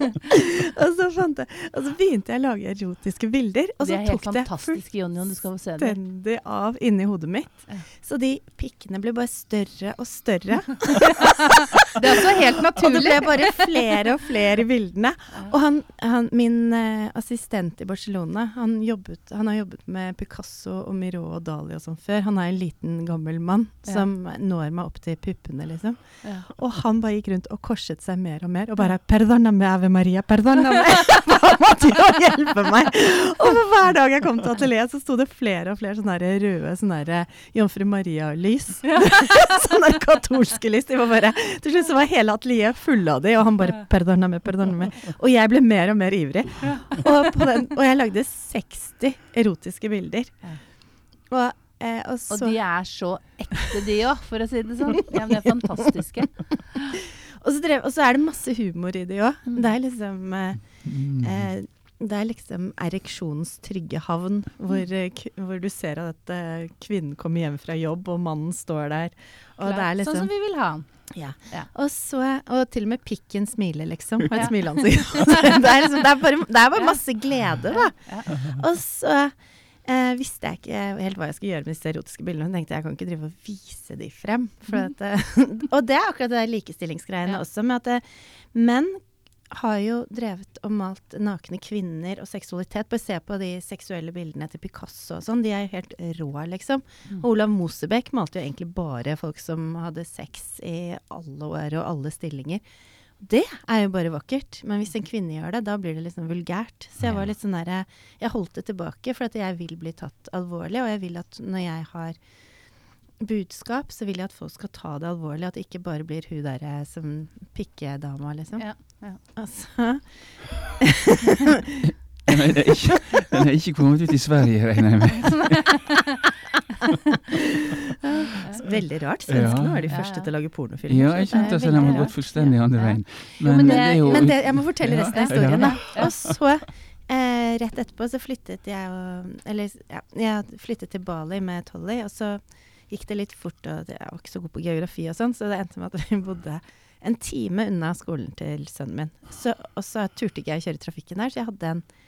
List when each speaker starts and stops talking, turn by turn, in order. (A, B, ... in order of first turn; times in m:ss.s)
0:00.3-0:11.8 A
0:03.8-0:06.0 B
0:11.9-0:13.7 B
0:12.7-0:50.5 A
0:26.2-0:26.5 B
0:38.8-0:39.2 B
0:51.2-0:52.6 A
0:52.3-0:57.0 B
0:57.2-1:10.3 A
0:59.5-0:59.7 B
1:00.8-1:01.5 C
1:09.6-1:10.9 B
1:11.1-1:42.6 A
1:14.3-1:14.6 B
1:15.1-1:15.5 B
1:17.7-1:18.3 B
1:18.3-1:18.6 C
1:43.2-1:52.2 A
1:53.2-2:01.8 A
1:58.6-1:59.2 B
2:01.9-2:05.9 C
2:08.2-2:12.2 A
2:08.6-2:10.2 C
2:09.9-2:10.3 B
2:10.9-2:16.4 C
2:11.3-2:16.2 B
2:13.5-2:31.8 A